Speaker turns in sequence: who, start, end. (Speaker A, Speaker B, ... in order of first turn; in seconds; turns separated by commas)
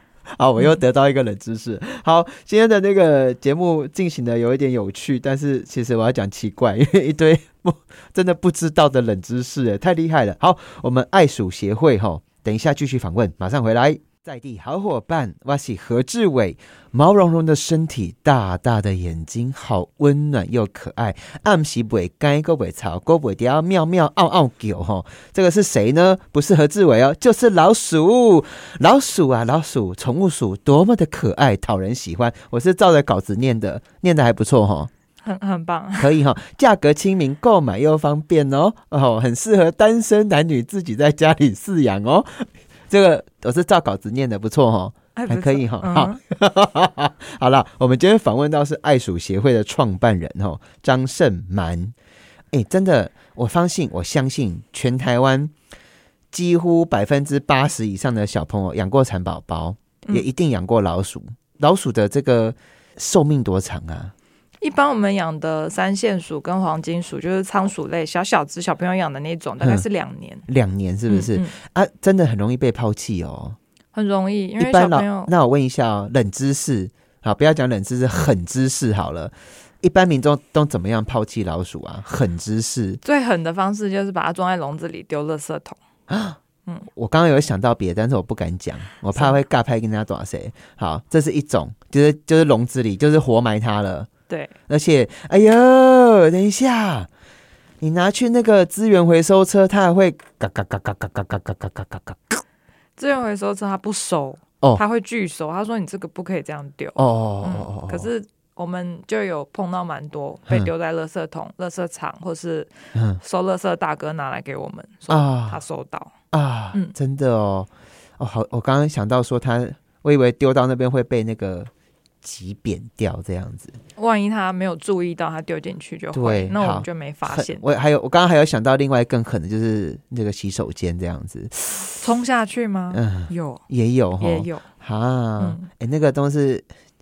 Speaker A: 0.3-34.9, Speaker B: 35.2-36.1, Speaker A: 36.0-51.9, Speaker B: 45.1-46.2, Speaker A: 52.5-55.5, Speaker A: 56.3-64.1, Speaker B: 64.6-70.4, Speaker A: 70.5-73.6, Speaker B: 71.1-71.5, Speaker B: 73.9-75.3, Speaker A: 74.6-83.0, Speaker B: 83.0-85.8, Speaker A: 86.1-86.4, Speaker A: 86.9-94.1, Speaker B: 94.3-94.5, Speaker A: 94.7-97.1, Speaker A: 97.8-102.4, Speaker B: 103.0-116.1, Speaker A: 107.0-108.1, Speaker A: 112.9-113.2, Speaker A: 115.1-115.6, Speaker A: 116.3-121.7, Speaker A: 122.2-123.8, Speaker B: 124.0-127.6, Speaker A: 126.1-131.9, Speaker B: 132.0-133.6, Speaker A: 132.9-136.7, Speaker B: 134.2-134.6, Speaker B: 135.4-135.7